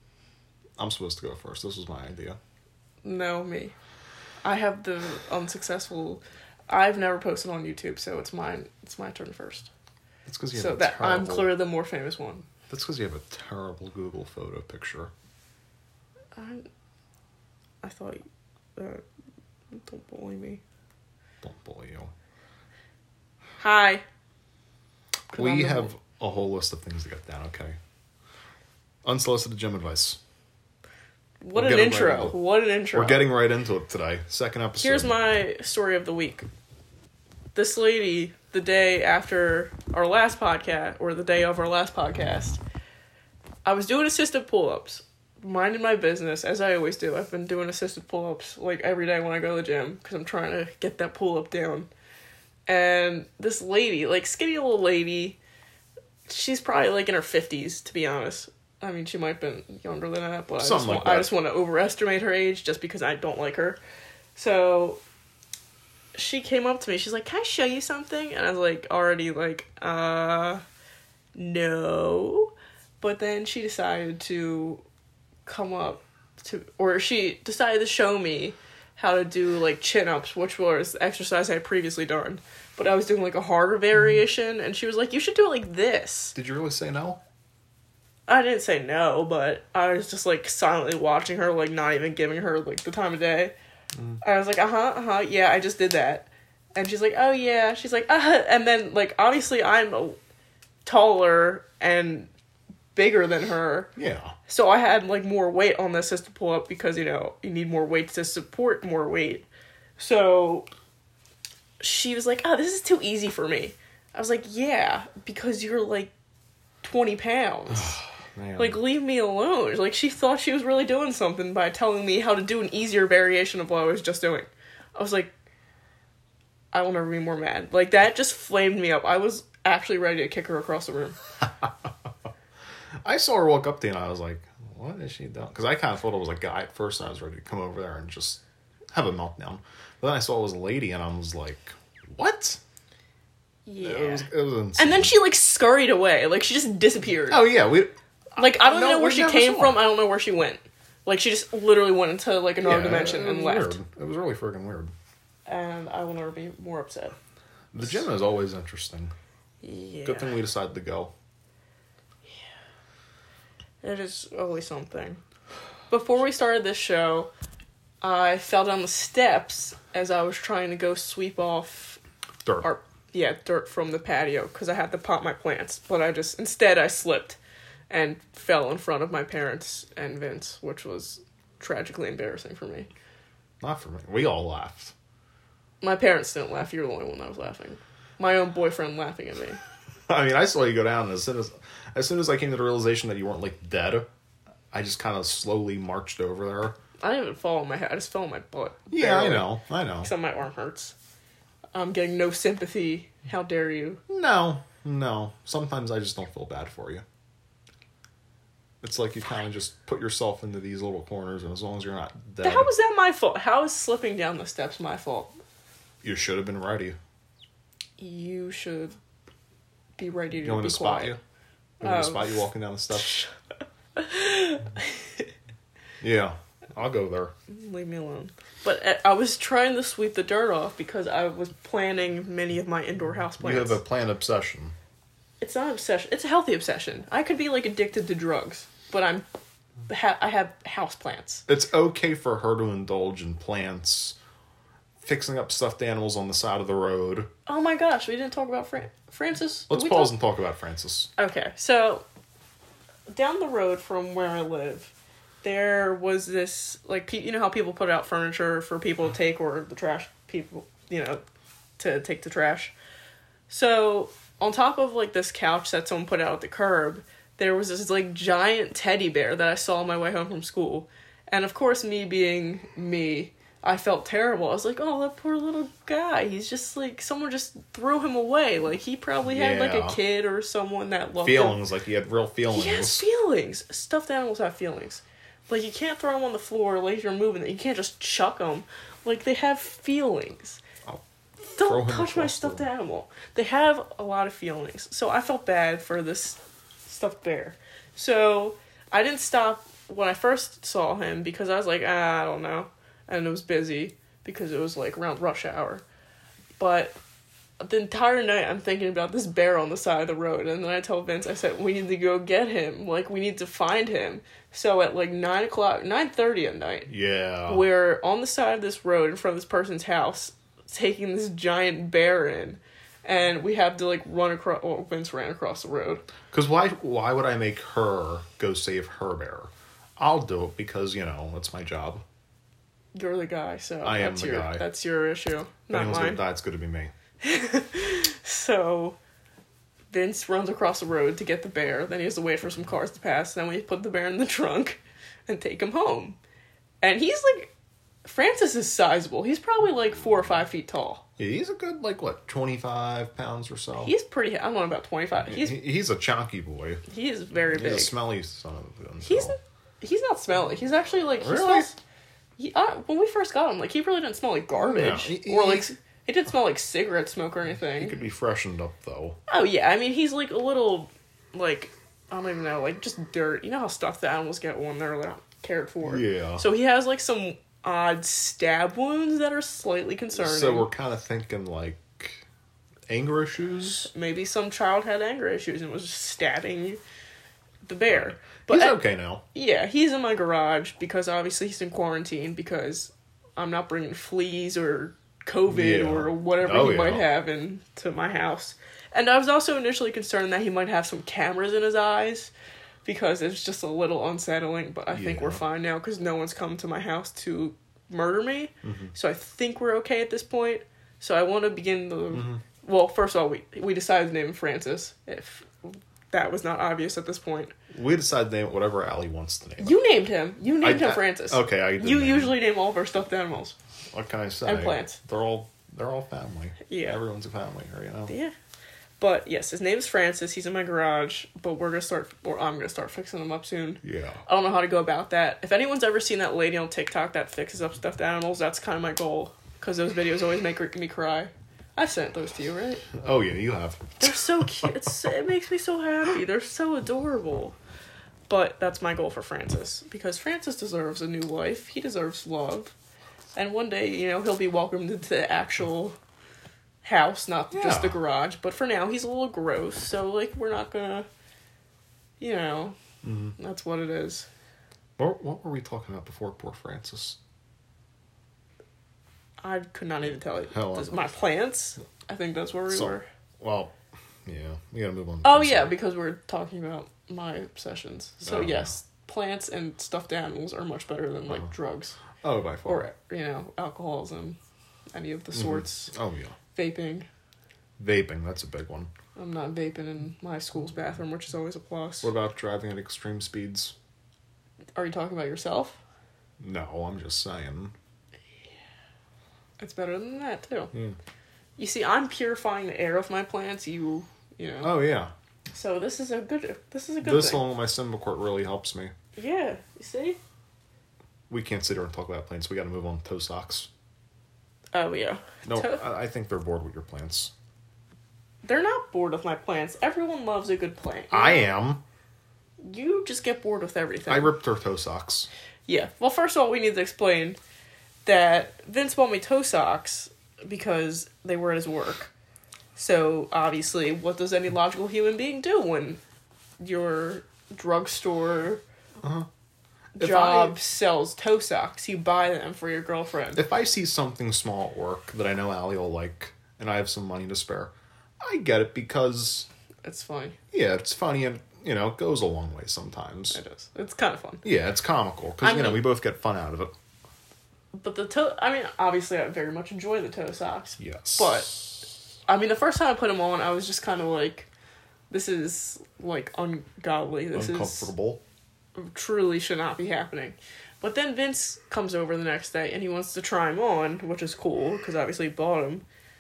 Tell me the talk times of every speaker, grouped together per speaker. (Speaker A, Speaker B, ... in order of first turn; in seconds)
Speaker A: 0.8-2.4, 10.2-11.5, 12.7-15.1, 21.4-22.1, 25.3-27.8, 29.0-30.2, 31.5-32.4, 32.9-35.1, 60.6-61.3, 86.3-87.2, 93.9-94.2, 104.0-104.3, 117.7-118.8, 133.0-142.6, 143.8-145.1, 147.2-149.9, 152.6-154.9, 157.7-159.1, 160.0-161.1, 183.6-184.9, 190.1-194.1, 194.7-196.8, 198.9-200.1, 204.1-207.0, 208.8-212.7, 216.0-217.0, 220.4-221.2, 221.8-223.2, 226.0-227.3, 233.4-234.7, 241.5-244.2, 245.0-247.3, 249.7-251.1, 279.2-280.0, 281.2-283.0, 291.6-292.6, 316.9-317.6, 326.3-332.0, 333.8-334.6, 335.7-336.9, 351.2-353.9, 355.2-356.8, 357.5-359.3, 361.2-361.7, 364.5-365.7, 367.8-369.2, 375.8-376.4, 380.1-382.2, 382.9-383.9, 388.0-389.2, 395.5-397.1, 404.9-405.4, 408.6-408.9, 412.1-412.4, 417.7-419.8, 420.6-422.4, 423.9-428.1, 433.8-434.2, 442.9-444.7, 457.5-458.0, 463.0-463.3, 465.0-467.2, 470.5-471.1, 472.7-473.7, 474.2-475.7, 478.2-478.7, 482.2-482.9, 485.3-486.3, 487.8-488.9, 492.0-493.7, 496.4-497.7, 504.6-505.1, 507.0-508.9, 511.3-513.7, 515.4-517.3, 521.1-521.8, 524.1-525.3, 539.0-539.3, 539.9-540.6, 543.3-549.5, 550.5-553.4, 554.4-556.7, 560.8-561.7, 567.3-568.2
Speaker B: 3.0-3.7, 4.4-9.7, 10.5-12.4, 16.3-16.6, 17.8-18.2, 18.8-19.0, 19.7-20.6, 23.6-24.0, 25.3-25.9, 31.4-33.3, 34.8-36.5, 37.5-42.6, 43.6-51.9, 52.7-55.4, 56.3-63.8, 64.3-65.0, 66.1-70.6, 71.3-74.8, 75.5-86.3, 88.3-93.5, 94.2-100.2, 100.8-102.3, 102.9-103.9, 104.5-109.5, 110.0-110.7, 111.8-116.1, 116.8-118.0, 118.6-125.3, 126.7-131.2, 143.7-147.5, 148.3-153.8, 155.5-157.1, 159.6-160.3, 163.8-165.2, 165.9-167.3, 168.0-172.0, 172.6-177.4, 177.9-182.9, 185.8-189.6, 197.0-200.9, 201.7-204.0, 212.4-215.3, 218.0-218.9, 220.0-221.2, 221.8-222.4, 222.9-223.3, 223.9-225.2, 227.5-233.8, 235.4-239.2, 239.9-241.4, 247.5-250.1, 251.2-252.0, 253.1-261.2, 261.8-262.7, 263.5-281.6, 282.5-290.6, 291.4-305.8, 306.6-306.9, 307.6-316.9, 317.4-326.0, 332.9-336.2, 337.2-339.0, 339.9-346.2, 346.8-347.5, 348.0-351.0, 353.8-355.6, 356.9-357.9, 359.0-361.8, 362.4-367.9, 369.3-380.7, 383.9-386.8, 387.6-388.8, 389.3-402.3, 402.8-417.5, 419.6-423.5, 424.4-425.0, 426.7-427.0, 428.1-428.3, 429.0-442.9, 444.0-447.6, 448.3-452.7, 453.3-455.9, 456.8-461.1, 462.2-462.8, 463.4-464.3, 469.4-473.1, 475.2-481.9, 482.6-484.4, 484.9-485.9, 486.5-487.1, 489.1-492.1, 494.8-495.8, 499.6-500.7, 501.6-504.7, 505.5-507.4, 509.1-510.2, 514.7-515.8, 518.4-521.5, 522.6-524.3, 525.7-527.4, 528.0-532.1, 532.8-536.0, 536.6-538.6, 540.0-543.4, 549.8-550.4, 553.3-554.4, 555.4-555.8, 557.7-561.6, 562.3-564.5, 565.1-567.9, 568.8-575.8